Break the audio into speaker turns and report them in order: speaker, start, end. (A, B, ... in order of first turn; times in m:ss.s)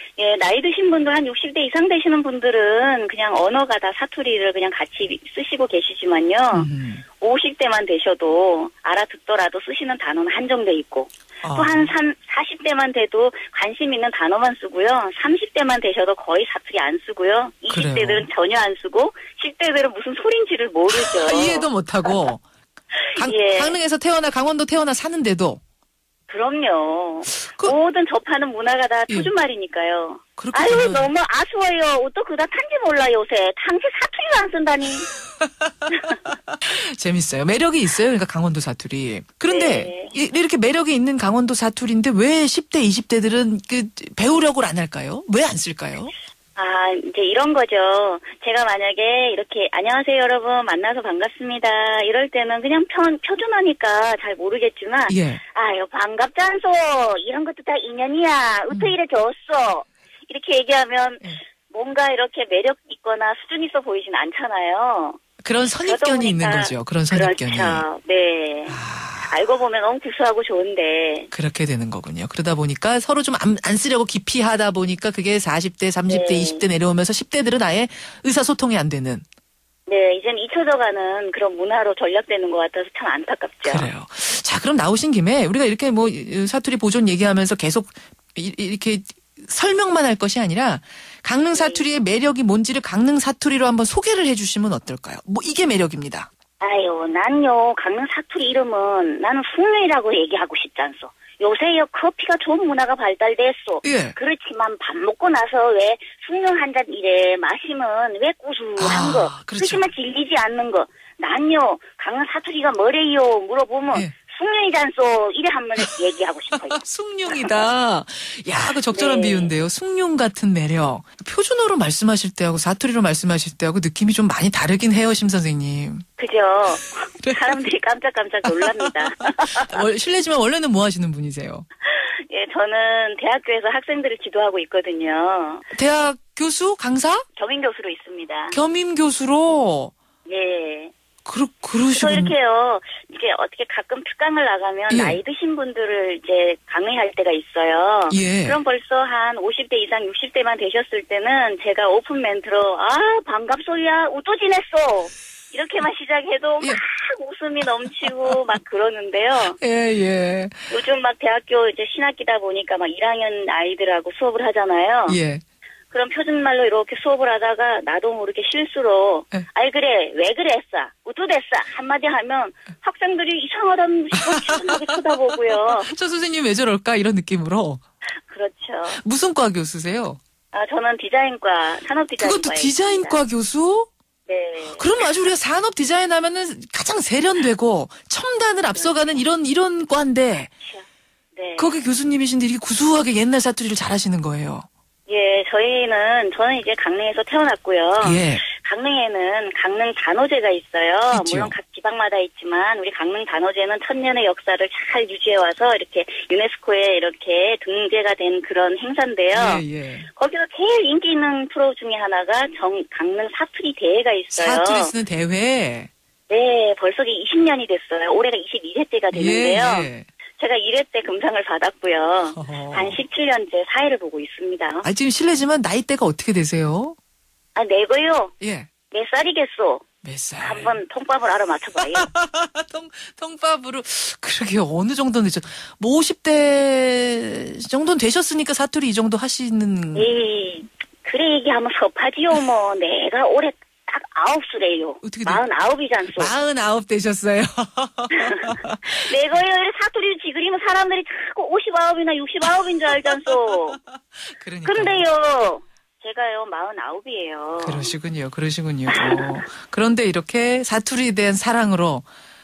0:00.2-0:22.2 A
0:06.5-0:07.0 B
0:11.4-0:11.9 B
0:17.7-0:18.3 B
0:20.9-0:22.4 B
0:23.0-0:23.8 A
0:23.2-0:25.6 B
0:26.3-0:35.1 A
0:27.4-0:27.8 B
0:30.4-0:31.1 B
0:36.6-0:46.1 B
0:39.5-0:40.2 A
0:46.6-1:05.2 A
0:55.1-0:55.4 B
1:05.4-1:07.8 B
1:05.8-1:11.3 A
1:08.7-1:09.4 B
1:11.3-1:19.2 B
1:16.1-1:16.6 A
1:19.9-1:23.9 A
1:23.6-1:36.3 B
1:31.5-1:31.9 A
1:36.6-1:57.6 A
1:43.8-1:44.2 B
1:48.8-1:49.9 B
1:56.8-2:06.0 B
1:58.9-1:59.6 A
2:06.2-2:09.9 A
2:07.2-2:07.7 B
2:08.5-2:11.6 B
2:11.8-2:15.6 A
2:15.7-2:17.2 B
2:17.3-2:18.6 A
2:18.5-2:19.9 B
2:20.2-2:20.9 A
2:21.2-2:22.4 B
2:21.9-2:39.6 A
2:24.9-2:25.2 B
2:28.1-2:28.6 B
2:38.0-2:38.3 B
2:39.4-2:40.7 B
2:40.7-2:45.2 A
2:45.1-2:45.4 B
2:45.9-2:55.9 A
2:54.2-2:55.0 B
2:55.5-2:57.8 B
2:58.2-2:59.0 A
2:58.9-3:00.2 B
3:00.5-3:03.2 A
3:02.2-3:03.9 B
3:04.3-3:05.0 A
3:04.7-3:10.5 B
3:08.7-3:09.2 A
3:10.6-3:11.8 A
3:11.6-3:14.7 B
3:15.1-3:34.9 A
3:18.0-3:18.4 B
3:21.1-3:21.6 B
3:29.3-3:30.1 B
3:34.3-3:35.9 B
3:36.3-3:44.9 A
3:39.1-3:40.1 B
3:42.4-3:43.0 B
3:44.8-3:47.0 B
3:47.6-3:48.3 A
3:48.4-3:48.7 B
3:48.9-3:49.8 A
3:50.0-3:50.8 B
3:50.4-3:52.1 A
3:51.8-4:00.1 B
4:00.0-4:06.4 A
4:05.0-4:05.4 B
4:06.2-4:09.0 B
4:08.1-4:13.8 A
4:13.1-4:15.1 B
4:14.6-4:17.9 A
4:17.6-4:22.1 B
4:18.9-4:19.4 A